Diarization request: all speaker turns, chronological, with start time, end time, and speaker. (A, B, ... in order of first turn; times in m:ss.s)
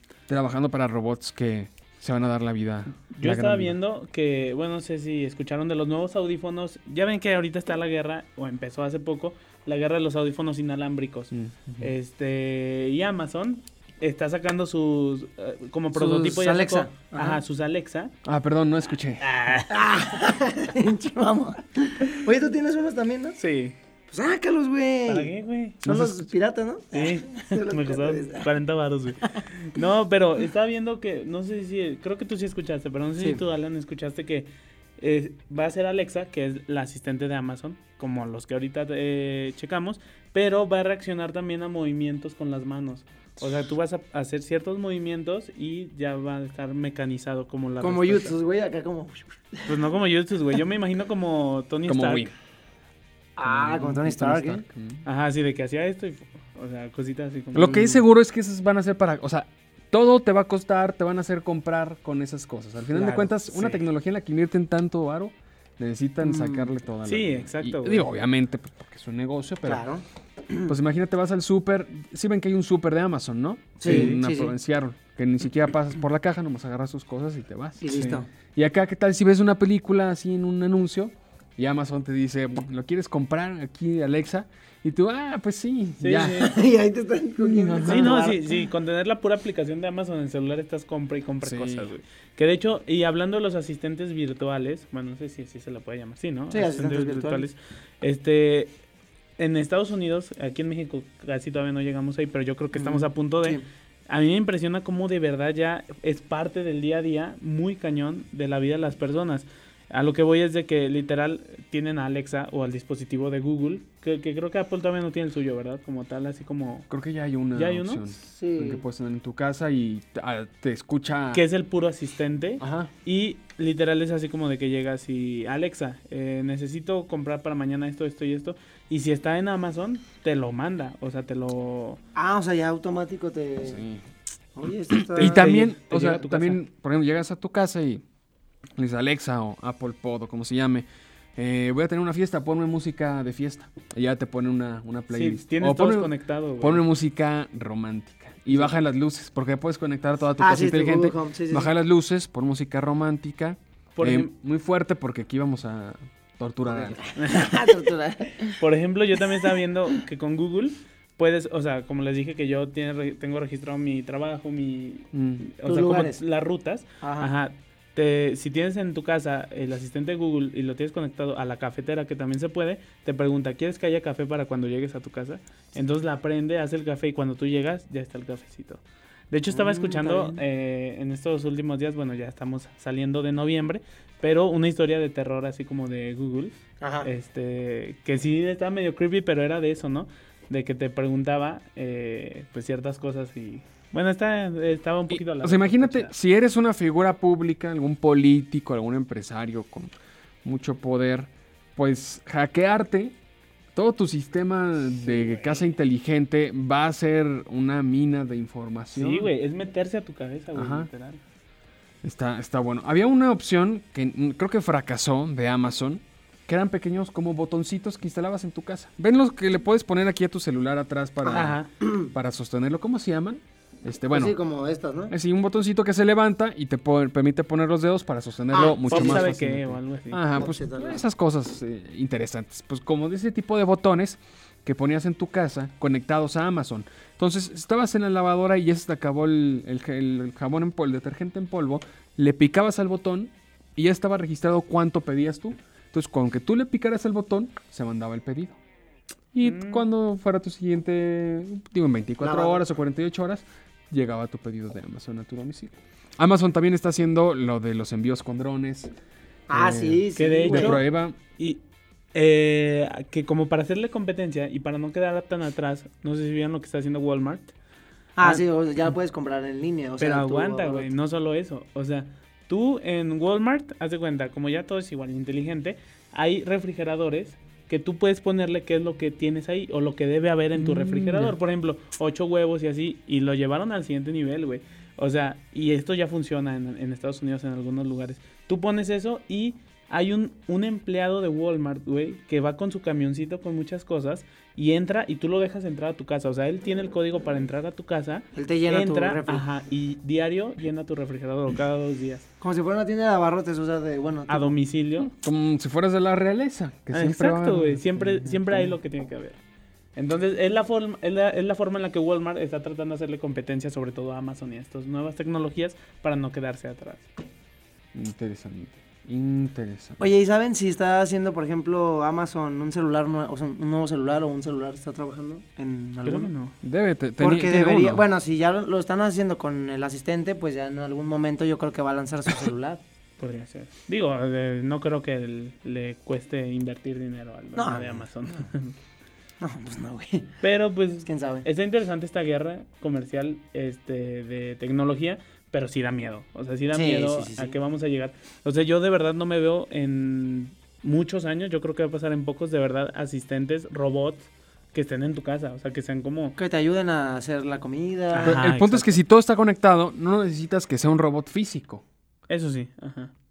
0:00.3-0:03.8 A
0:03.0-0:18.1 B
0:11.3-0:11.9 A
0:15.9-0:17.4 C
0:18.2-0:19.2 A
0:19.2-0:19.9 B
0:19.7-0:23.4 C
0:23.4-0:23.8 B
0:24.1-0:25.3 C
0:25.1-0:25.8 B
0:25.8-0:26.3 A
0:25.8-0:28.5 C
0:26.9-0:48.4 B
0:47.8-0:49.8 C
0:49.7-0:52.3 B
0:51.9-0:52.3 A
0:53.4-0:54.6 C
0:53.4-0:55.0 A
0:55.0-0:58.0 B
0:57.5-1:09.8 A
1:03.0-1:03.7 B
1:06.2-1:06.7 C
1:07.0-1:08.1 B
1:09.6-1:10.7 C
1:10.7-1:26.5 A
1:13.8-1:14.5 C
1:13.8-1:14.2 B
1:17.8-1:18.3 C
1:17.9-1:18.2 B
1:26.0-1:26.5 B
1:26.3-1:28.6 C
1:27.4-1:28.2 A
1:27.8-1:38.7 B
1:31.4-1:31.9 A
1:36.5-1:37.5 C
1:39.4-1:56.9 B
1:42.8-1:43.6 C
1:56.9-2:01.4 A
1:57.5-1:58.0 B
1:58.2-1:58.8 C
2:01.3-2:12.0 B
2:02.6-2:02.9 A
2:12.2-2:13.8 C
2:13.6-2:14.0 A
2:14.6-2:15.6 C
2:15.2-2:16.6 B
2:15.2-2:18.0 A
2:18.8-2:37.0 A
2:25.1-2:26.8 B
2:30.4-2:31.7 C
2:34.0-2:34.3 B
2:36.7-2:38.6 C
2:37.2-2:37.7 B
2:38.6-3:16.1 B
2:45.1-2:45.5 A
2:45.6-2:46.2 C
2:47.0-2:47.3 C
2:59.5-3:00.4 C
3:06.8-3:07.1 C
3:15.1-3:19.9 A
3:20.4-3:23.2 A
3:23.8-3:29.3 A
3:29.0-3:31.2 B
3:30.5-3:30.9 A
3:32.0-3:44.4 A
3:41.2-3:41.7 B
3:41.5-3:42.1 C
3:44.1-3:45.1 C
3:45.1-4:08.6 A
3:48.5-3:49.3 C
3:48.9-3:50.2 B
3:50.4-3:51.0 C
4:09.3-4:18.9 A
4:09.4-4:09.8 B
4:12.2-4:12.6 C
4:19.5-4:20.8 C
4:19.5-4:21.2 A
4:20.2-4:20.8 B
4:22.1-4:27.5 B
4:28.2-4:30.9 C
4:30.0-5:02.3 B
4:40.6-4:41.4 A
4:58.4-4:59.4 C
5:02.4-5:04.6 C
5:04.3-5:05.1 B
5:05.1-5:08.8 A
5:06.9-5:09.4 B
5:10.0-5:17.1 B
5:17.9-5:20.1 A
5:20.0-5:26.3 C
5:26.0-5:26.5 B
5:26.6-5:28.0 A
5:27.2-5:32.8 C
5:33.2-5:38.7 B
5:37.6-5:38.4 C
5:39.4-5:40.3 C
5:40.4-5:56.4 B
5:41.0-5:41.5 C
5:46.7-5:47.6 C
5:56.4-5:58.4 C
5:58.1-5:58.9 B
5:58.2-6:01.8 A
6:02.3-6:03.1 B